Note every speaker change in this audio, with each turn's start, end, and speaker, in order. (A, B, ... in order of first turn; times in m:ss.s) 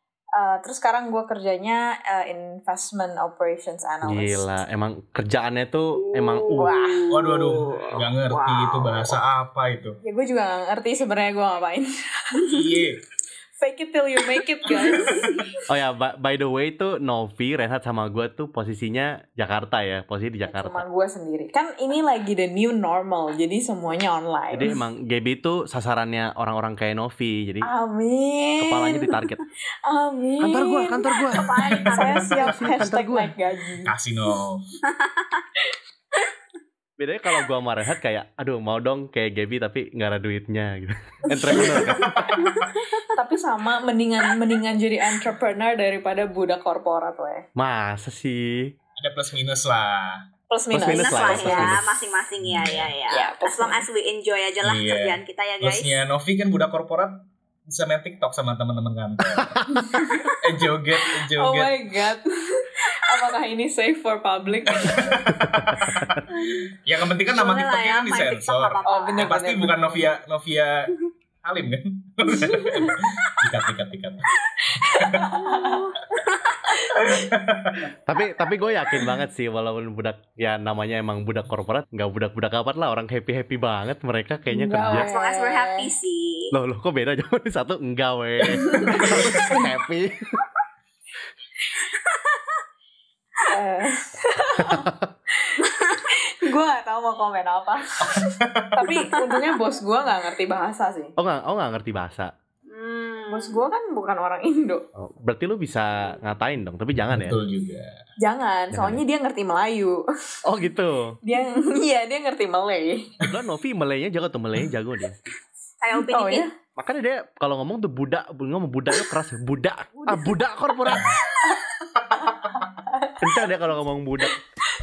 0:00.4-0:04.5 A
0:04.0-0:06.8 B
0:06.3-0:07.1 C
0:06.6-0:07.5 A
0:07.1-0:10.0 D
0:08.3-0:09.0 C
0:10.0-0:11.9 A
0:12.5-0:13.0 D
0:13.6-0:15.2 A
0:14.7-0:15.4 C
0:15.7-0:20.8 B
0:20.5-0:24.7 A
0:24.5-0:27.7 B
0:27.6-0:29.1 A
0:28.6-0:29.4 B
0:29.9-0:33.9 A
0:30.4-0:33.3 B
0:31.2-0:32.8 C
0:33.8-0:34.7 D
0:34.9-0:35.4 C
0:37.0-0:42.4 B
0:41.3-0:42.3 A
0:41.5-0:43.0 C
0:43.2-0:47.4 A
0:47.6-0:48.7 B
0:49.0-0:50.2 D
0:50.5-0:51.8 A
0:50.7-0:51.9 B
0:50.9-0:56.0 C
0:52.4-0:52.9 D
0:53.1-0:53.8 A
0:54.6-0:59.6 D
0:59.8-1:00.4 A
1:00.4-1:01.8 D
1:01.4-1:05.2 A
1:05.3-1:06.2 B
1:06.8-1:14.3 D
1:07.3-1:09.3 C
1:08.9-1:10.1 A
1:12.3-1:13.0 A
1:14.7-1:15.8 A
1:14.8-1:15.2 D
1:15.4-1:16.6 C
1:16.8-1:17.2 A
1:17.0-1:17.9 D
1:18.1-1:25.1 B
1:24.5-1:25.9 A
1:24.9-1:26.5 C
1:26.5-1:30.1 B
1:28.6-1:29.7 A
1:31.8-1:32.6 C
1:33.5-1:34.9 A
1:35.5-1:41.2 A
1:38.4-1:38.9 D
1:41.2-1:42.3 B
1:42.7-1:43.6 C
1:43.3-1:44.9 A
1:45.0-1:47.4 B
1:47.1-1:48.0 D
1:48.2-1:50.0 A
1:48.7-1:49.0 B
1:50.5-1:51.2 B
1:51.2-1:53.1 A
1:53.3-1:55.2 B
1:55.8-1:56.5 C
1:55.9-1:56.5 A
1:56.8-2:01.1 B
2:00.9-2:01.2 D
2:00.9-2:01.6 A
2:02.1-2:02.6 D
2:02.2-2:03.3 A
2:03.2-2:04.3 B